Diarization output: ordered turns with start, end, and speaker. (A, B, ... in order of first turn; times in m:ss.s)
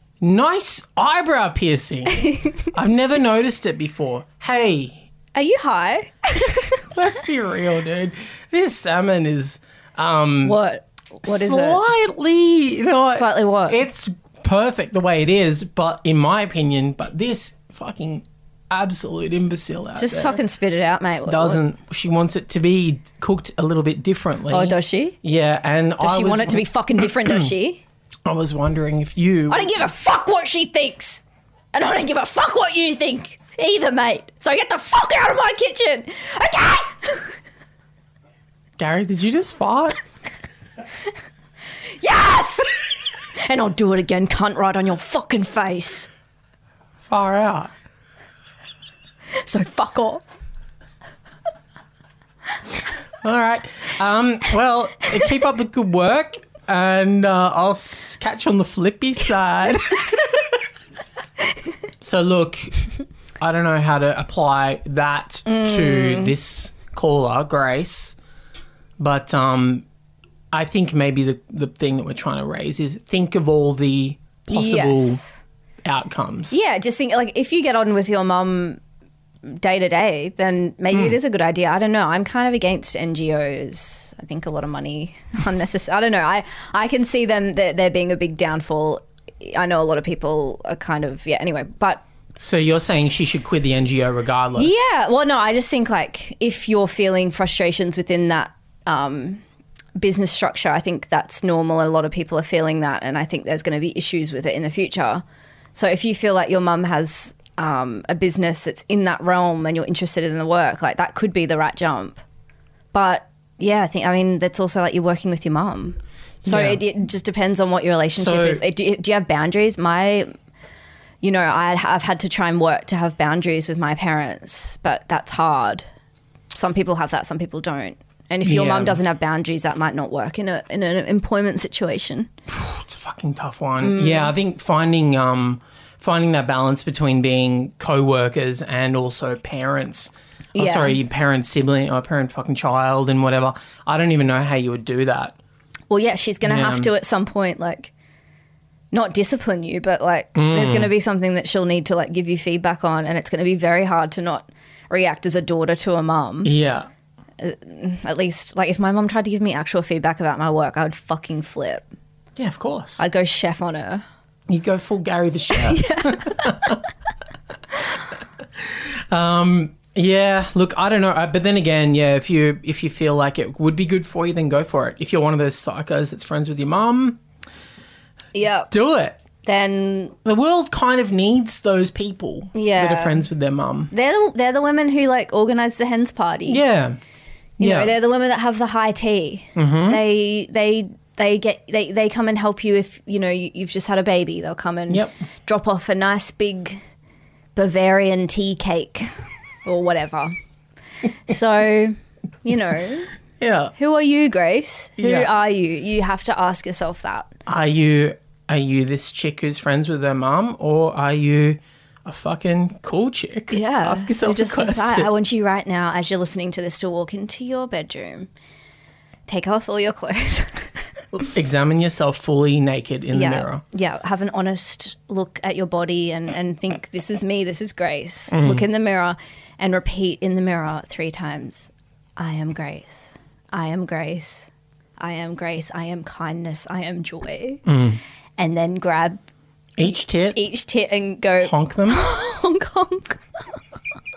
0:00.2-0:05.1 A
0:02.1-0:02.6 B
0:05.3-0:06.8 B
0:06.9-0:10.6 A
0:10.4-0:11.8 B
0:11.2-0:20.4 A
0:13.1-0:13.8 B
0:20.0-0:21.6 B
0:21.2-0:27.5 A
0:24.5-0:25.2 B
0:26.0-0:27.8 B
0:28.2-0:29.7 A
0:29.5-0:31.2 B
0:31.7-0:37.3 B
0:38.8-0:40.0 A
0:42.0-0:42.8 B
0:43.4-0:46.1 B
0:47.0-0:47.7 A
0:49.4-0:50.2 B
0:53.2-1:00.5 A
1:02.0-1:02.8 A
1:03.4-1:08.2 A
1:05.4-1:06.3 B
1:09.0-1:09.8 A
1:10.5-1:15.2 A
1:14.5-1:15.3 B
1:15.8-1:16.6 A
1:16.5-1:18.8 B
1:19.4-1:32.0 B
1:20.9-1:21.2 A
1:32.4-1:34.8 A
1:34.6-1:39.4 B
1:40.0-1:45.2 B
1:45.7-1:52.2 B
1:52.9-2:00.3 B
1:56.4-1:56.8 A
1:58.1-1:58.6 A
2:01.2-2:05.8 B
2:06.5-2:12.3 B
2:08.4-2:09.0 A
2:12.5-2:25.4 A
2:13.8-2:14.3 B
2:20.5-2:21.0 B
2:25.9-2:27.9 B
2:26.4-2:26.9 A
2:28.9-2:36.5 B
2:30.3-2:30.9 A
2:36.4-2:36.9 A
2:37.4-2:41.8 B
2:42.4-2:43.0 A
2:43.0-2:44.0 B
2:44.5-2:46.8 A
2:45.5-2:46.7 B
2:48.6-2:57.2 A
2:58.3-2:58.7 B
2:58.7-2:59.2 A
2:59.4-3:00.1 B
3:00.2-3:03.9 A
3:02.5-3:03.2 B
3:03.9-3:06.6 B
3:06.5-3:07.0 A
3:07.6-3:16.8 B
3:07.6-3:07.9 A
3:09.6-3:10.0 A
3:14.9-3:15.2 A
3:17.6-3:19.1 B
3:19.6-3:20.3 B
3:21.3-3:23.1 B
3:23.4-3:23.7 A
3:23.8-3:27.3 B
3:25.0-3:25.3 A
3:27.4-3:35.1 A
3:33.5-3:38.3 B
3:39.3-3:40.7 B
3:41.1-3:43.6 A
3:43.1-3:57.6 B
3:48.3-3:48.7 A
3:57.6-3:58.0 A
3:58.4-3:59.2 B
3:59.8-4:00.4 A
4:00.3-4:03.4 B
4:01.4-4:02.0 A